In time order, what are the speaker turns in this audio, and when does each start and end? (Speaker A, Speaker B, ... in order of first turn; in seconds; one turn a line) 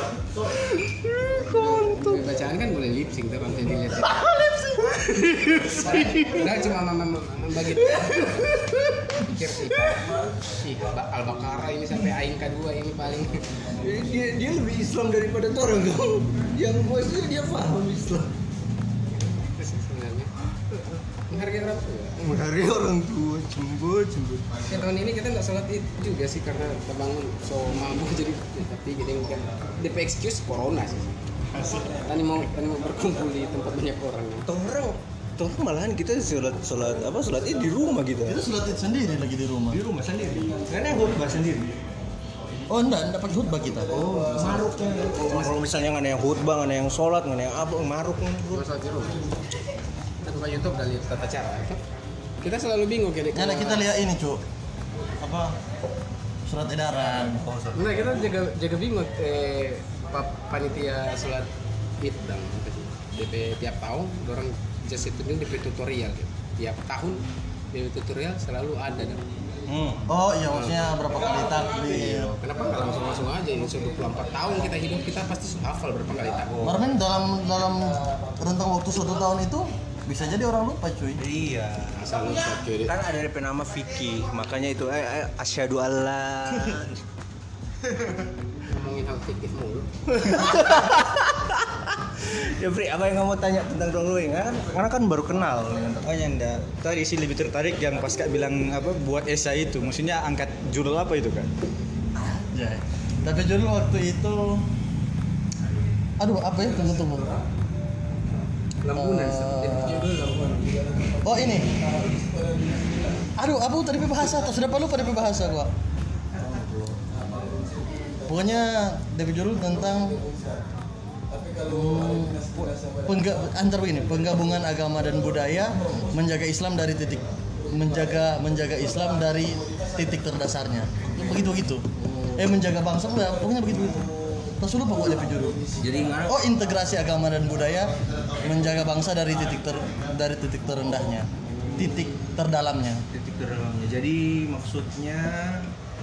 Speaker A: 0.5-2.2
Speaker B: 1.4-13.7
Speaker A: 5.0-6.6
Speaker A: 7.8-10.0
Speaker A: 13.8-18.3
Speaker B: 19.1-20.3
Speaker B: 21.3-22.2
Speaker A: 22.2-24.6
Speaker B: 24.7-31.1
Speaker B: 31.8-34.5
Speaker A: 34.5-38.4
Speaker C: 38.3-39.8
Speaker A: 39.7-41.7
Speaker C: 42.7-44.0
Speaker A: 43.9-48.6
Speaker B: 44.4-44.7
Speaker B: 45.2-45.5
Speaker B: 48.5-49.3
Speaker B: 50.2-51.8
Speaker B: 52.4-53.9
Speaker C: 53.3-54.4
Speaker C: 55.2-55.5
Speaker C: 56.5-57.4
Speaker A: 57.0-58.2
Speaker B: 57.7-61.5
Speaker B: 62.0-69.3
Speaker A: 69.7-70.1
Speaker C: 70.1-72.4
Speaker B: 72.0-76.8
Speaker C: 76.6-81.2
Speaker A: 81.2-82.3
Speaker B: 82.0-82.9
Speaker A: 82.9-87.0
Speaker B: 88.7-89.9
Speaker A: 90.1-96.6
Speaker D: 96.7-101.5
Speaker C: 102.2-104.7
Speaker C: 106.2-107.4
Speaker B: 108.8-110.8
Speaker C: 108.9-110.1
Speaker C: 111.2-111.8
Speaker C: 113.4-115.7
Speaker A: 116.4-116.9
Speaker C: 118.3-120.3
Speaker C: 121.6-135.6
Speaker A: 132.0-132.3
Speaker A: 135.8-136.4
Speaker C: 136.3-143.1
Speaker A: 141.7-142.1
Speaker A: 143.1-145.7